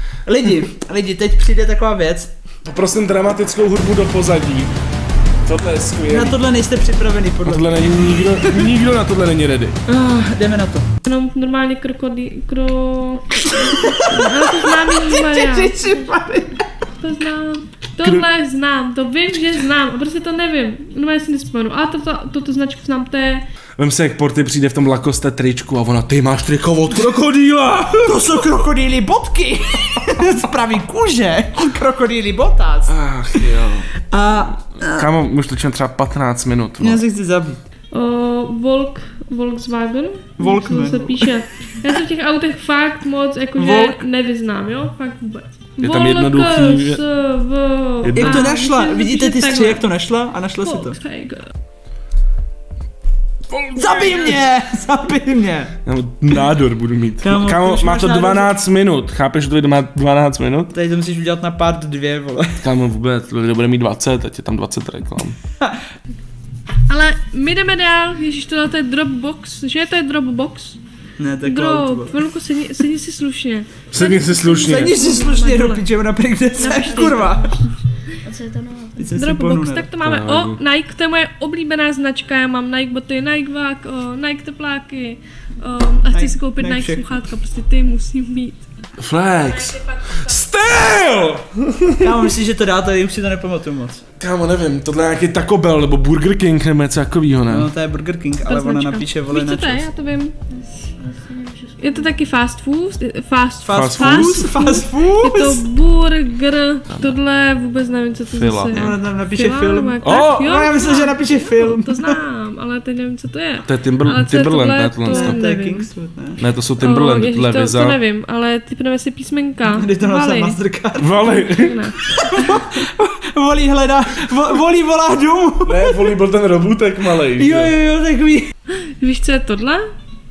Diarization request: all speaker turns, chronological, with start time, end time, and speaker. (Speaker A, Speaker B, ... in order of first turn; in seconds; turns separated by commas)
Speaker A: 0.2-2.3, Speaker B: 2.6-4.7, Speaker B: 5.4-6.4, Speaker A: 6.1-7.8, Speaker B: 7.4-9.8, Speaker A: 8.4-8.7, Speaker A: 9.8-10.9, Speaker C: 11.1-15.9, Speaker A: 13.4-16.8, Speaker C: 17.0-23.5, Speaker B: 23.8-28.3, Speaker A: 28.0-32.9, Speaker B: 32.9-33.9, Speaker A: 34.1-35.1, Speaker B: 34.9-37.0, Speaker A: 36.8-37.6, Speaker C: 37.9-49.9, Speaker A: 40.4-41.3, Speaker A: 43.6-44.0, Speaker B: 45.8-47.0, Speaker B: 48.0-48.5, Speaker A: 48.1-51.0, Speaker C: 50.6-51.5, Speaker B: 53.5-54.4, Speaker A: 53.8-55.7, Speaker B: 55.9-60.7, Speaker A: 57.2-58.5, Speaker A: 60.7-62.6, Speaker B: 62.6-65.4, Speaker C: 66.9-70.8, Speaker A: 71.2-72.1, Speaker C: 71.4-75.8, Speaker B: 73.9-74.9, Speaker A: 74.6-77.5, Speaker C: 76.5-77.7, Speaker D: 76.7-77.5, Speaker D: 78.2-79.1, Speaker A: 79.0-79.9, Speaker C: 79.2-88.7, Speaker B: 80.0-80.6, Speaker A: 86.1-87.1, Speaker B: 89.0-92.1, Speaker C: 89.4-90.4, Speaker A: 92.0-94.0, Speaker B: 94.2-97.7, Speaker A: 97.5-99.9, Speaker C: 98.5-100.3, Speaker D: 100.5-102.1, Speaker C: 101.8-115.8, Speaker A: 103.6-105.6, Speaker B: 103.7-104.5, Speaker B: 106.9-107.1, Speaker B: 108.3-108.9, Speaker A: 108.7-112.2, Speaker B: 110.0-110.5, Speaker B: 113.6-115.4, Speaker A: 115.1-116.4, Speaker B: 116.4-118.0, Speaker C: 116.8-120.6, Speaker A: 119.7-121.1, Speaker B: 121.0-121.7, Speaker C: 121.2-122.8, Speaker A: 122.2-126.1, Speaker B: 125.6-127.7, Speaker A: 127.3-128.5, Speaker C: 128.7-129.8